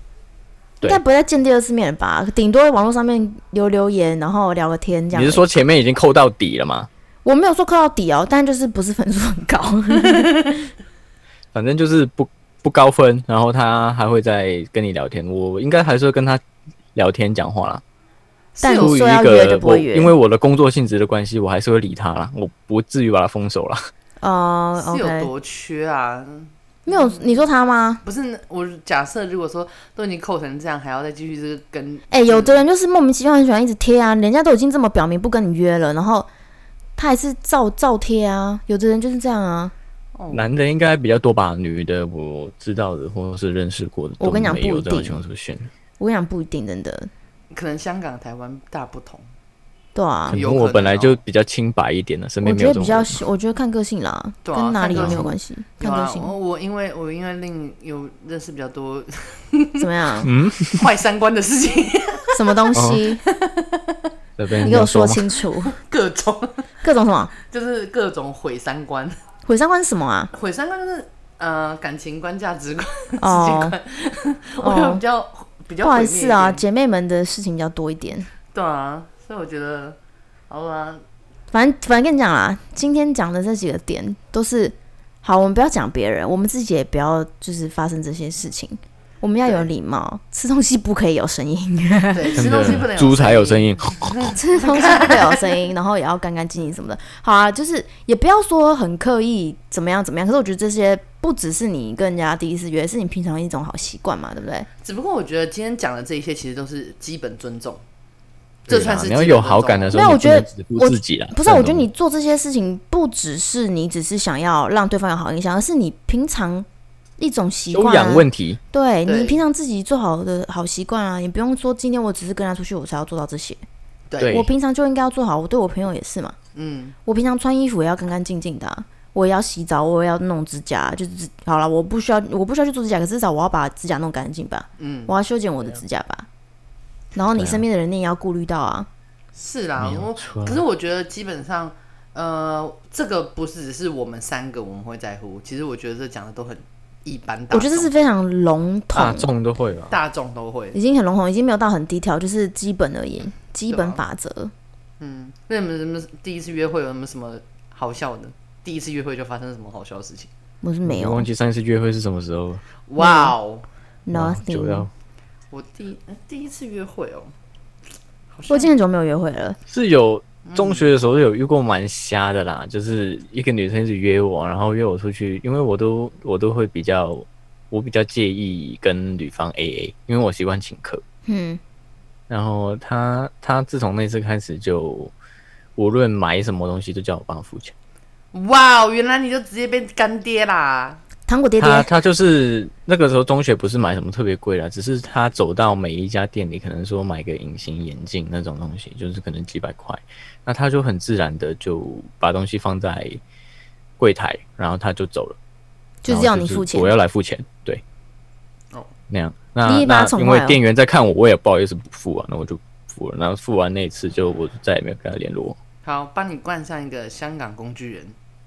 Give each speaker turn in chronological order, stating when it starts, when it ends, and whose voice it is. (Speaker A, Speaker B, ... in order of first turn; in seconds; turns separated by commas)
Speaker A: 0.8-5.5, Speaker B: 5.1-6.9, Speaker A: 7.2-10.4, Speaker B: 11.5-16.4, Speaker B: 16.9-17.8, Speaker C: 18.5-19.0, Speaker A: 18.6-20.1, Speaker B: 18.8-23.8, Speaker A: 24.2-25.3, Speaker C: 24.8-27.5, Speaker A: 26.9-28.0, Speaker C: 28.0-32.6, Speaker A: 32.1-36.3, Speaker A: 37.0-39.7, Speaker C: 40.1-40.5, Speaker B: 40.3-45.7, Speaker A: 44.2-45.2, Speaker A: 46.0-47.1, Speaker C: 47.5-49.3, Speaker A: 49.9-50.4, Speaker B: 50.3-53.2, Speaker C: 50.3-51.2, Speaker A: 52.4-56.3, Speaker C: 54.5-59.9, Speaker B: 54.9-55.2, Speaker A: 59.8-60.3, Speaker B: 60.2-60.9, Speaker C: 60.6-62.7, Speaker A: 62.3-63.2, Speaker B: 62.7-63.0, Speaker C: 63.3-64.1, Speaker B: 64.4-65.2, Speaker A: 64.6-65.8, Speaker C: 65.6-66.7, Speaker A: 66.8-67.3, Speaker C: 67.4-69.2, Speaker A: 69.5-70.3, Speaker C: 70.3-76.6, Speaker A: 73.2-73.8, Speaker A: 74.6-75.0, Speaker A: 75.8-78.3, Speaker C: 78.5-80.0, Speaker C: 80.5-81.0, Speaker A: 81.5-92.7, Speaker C: 89.4-89.7, Speaker C: 92.1-95.7, Speaker B: 92.3-94.3, Speaker A: 94.3-104.7, Speaker C: 104.8-107.8, Speaker C: 108.7-109.9, Speaker B: 108.7-111.9, Speaker A: 109.9-116.7, Speaker A: 117.2-123.6, Speaker B: 117.7-118.6, Speaker C: 119.0-119.4, Speaker C: 124.1-124.4, Speaker B: 124.2-124.5, Speaker A: 124.3-126.3, Speaker C: 126.5-127.0, Speaker A: 127.0-136.3, Speaker C: 134.8-135.1, Speaker A: 137.1-138.9, Speaker B: 137.3-137.6, Speaker C: 139.3-147.9, Speaker B: 139.8-140.6, Speaker A: 147.5-149.3, Speaker B: 148.9-150.0, Speaker C: 149.9-150.8, Speaker A: 150.7-154.5, Speaker C: 153.7-154.0, Speaker C: 155.0-160.3, Speaker A: 160.6-161.3, Speaker B: 160.8-162.6, Speaker C: 162.9-163.6, Speaker A: 163.0-163.3, Speaker A: 164.1-164.9, Speaker B: 164.1-164.9, Speaker C: 165.5-167.3, Speaker C: 168.3-168.7, Speaker A: 168.5-169.6, Speaker B: 169.7-181.0, Speaker C: 170.4-170.9, Speaker A: 181.3-181.6, Speaker B: 182.3-185.1, Speaker B: 185.8-187.7, Speaker C: 188.3-191.0, Speaker A: 191.3-191.9, Speaker B: 191.6-203.2, Speaker B: 204.0-205.4, Speaker A: 206.0-206.9, Speaker B: 206.1-207.8, Speaker B: 209.1-215.6, Speaker A: 209.6-210.6, Speaker C: 215.8-218.1